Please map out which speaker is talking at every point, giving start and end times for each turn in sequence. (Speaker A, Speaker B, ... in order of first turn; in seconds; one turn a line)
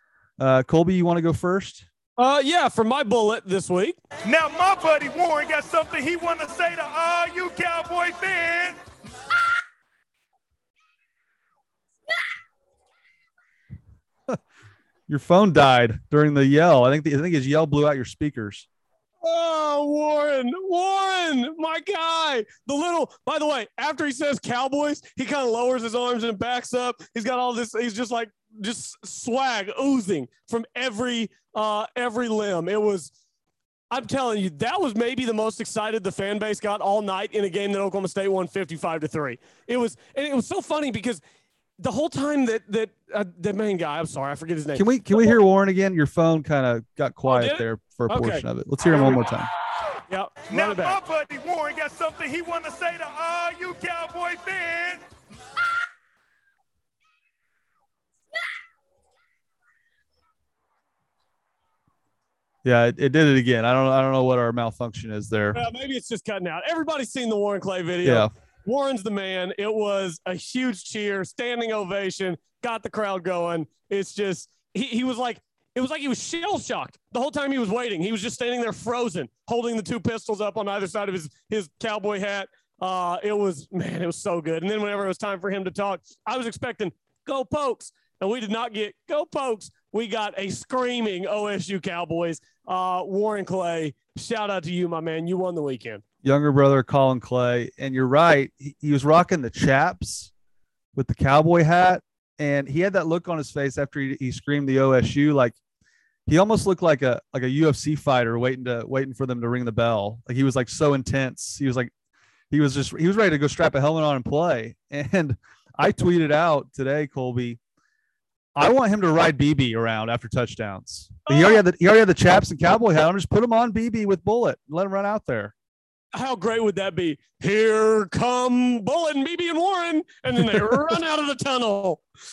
Speaker A: 0.4-1.9
Speaker B: 2.2-4.0
Speaker C: 4.2-8.8
Speaker A: 15.1-18.7
Speaker B: 19.2-33.1
Speaker B: 33.9-41.2
Speaker B: 41.8-45.3
Speaker A: 44.7-49.5
Speaker B: 47.2-48.4
Speaker B: 49.0-49.2
Speaker B: 50.1-51.0
Speaker C: 50.5-55.0
Speaker A: 62.6-65.6
Speaker B: 65.5-96.0
Speaker A: 68.0-68.3
Speaker A: 96.2-100.3
Speaker A: 100.9-105.5
Speaker A: 106.3-111.9
Speaker A: 112.5-117.6
Speaker A: 118.5-125.5
Speaker B: 121.3-121.6
Speaker B: 126.1-132.0